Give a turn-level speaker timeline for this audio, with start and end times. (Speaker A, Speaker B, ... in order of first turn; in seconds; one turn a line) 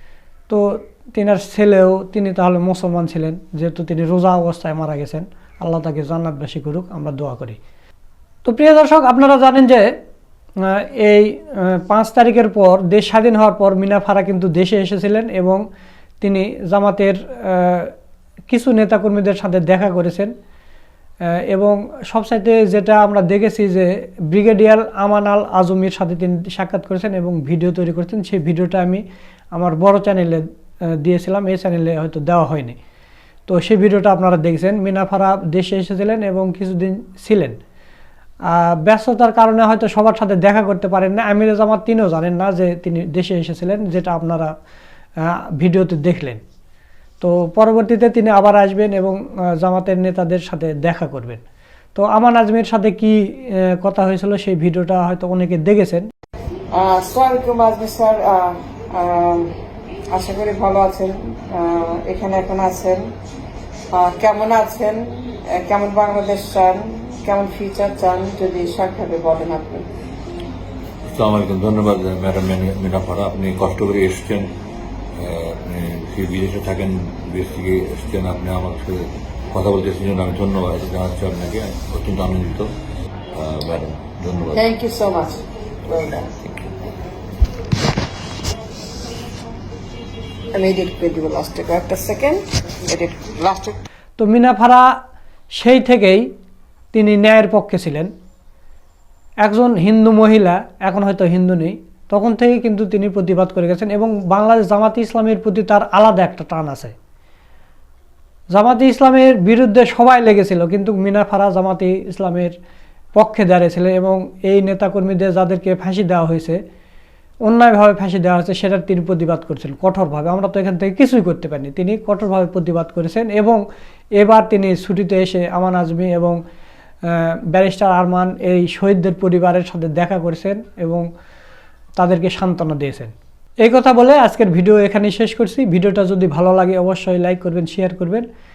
Speaker A: 0.5-7.6
Speaker A: 8.4-9.9
Speaker A: 10.6-15.6
Speaker A: 16.2-17.9
Speaker A: 18.5-20.3
Speaker A: 21.5-29.0
Speaker A: 29.5-30.4
Speaker A: 31.0-32.8
Speaker A: 33.5-37.6
Speaker A: 38.5-44.5
Speaker A: 45.5-46.4
Speaker A: 47.2-51.4
Speaker A: 52.0-56.1
Speaker B: 56.8-59.5
Speaker B: 60.1-63.1
Speaker B: 63.9-69.9
Speaker C: 71.1-74.5
Speaker C: 75.2-82.7
Speaker C: 83.3-84.6
Speaker B: 84.5-86.3
Speaker C: 86.4-86.7
Speaker B: 90.5-93.8
Speaker A: 94.2-95.0
Speaker A: 95.5-96.3
Speaker A: 96.9-98.1
Speaker A: 99.4-106.9
Speaker A: 108.5-112.5
Speaker A: 113.2-116.6
Speaker A: 117.5-123.6
Speaker A: 124.2-126.4
Speaker A: 127.1-131.1
Speaker A: 132.0-133.1
Speaker A: 133.6-138.3